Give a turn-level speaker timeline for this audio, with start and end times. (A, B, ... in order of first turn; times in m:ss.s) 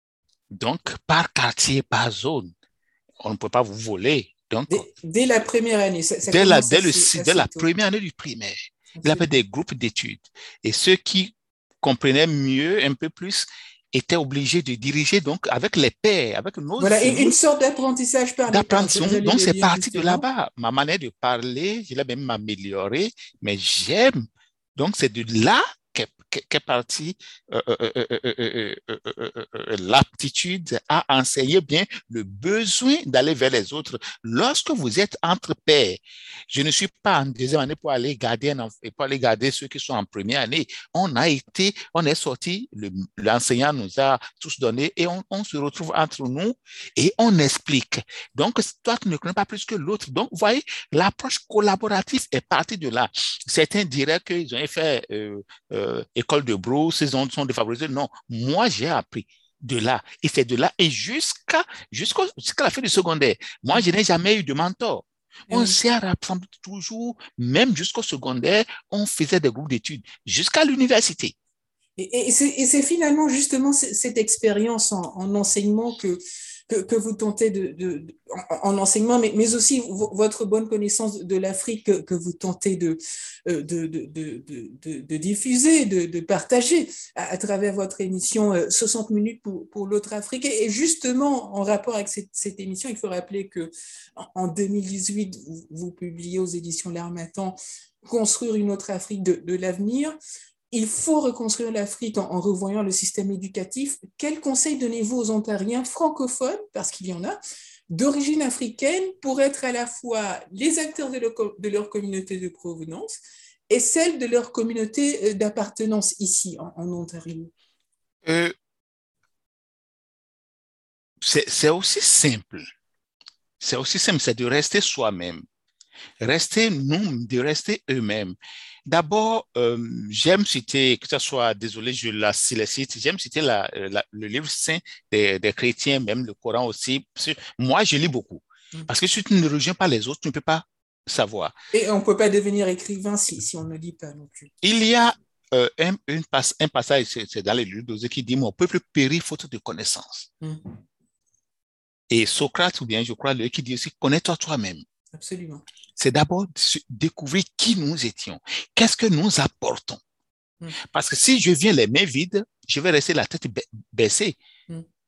0:00.5-0:02.5 A
0:03.2-0:04.8 A
0:04.7-0:07.7 B
0:06.3-0:17.3 A
0:09.0-0:09.3 B
0:16.8-0:20.2 B
0:18.5-0:24.2 A
0:24.8-1:11.3 A
1:05.5-1:05.8 B
1:12.0-1:40.2 B
1:40.7-1:47.4 B
1:47.9-1:57.5 B
1:58.2-1:58.5 A
2:01.2-2:02.6 A
2:03.6-2:05.4 A
2:06.2-2:08.4 A
2:08.9-2:21.5 A
2:21.7-2:24.5 B
2:24.6-2:30.3 A
2:30.4-2:30.8 B
2:32.1-2:34.8 A
2:35.1-2:35.6 B
2:36.0-2:40.0 A
2:40.8-2:44.4 A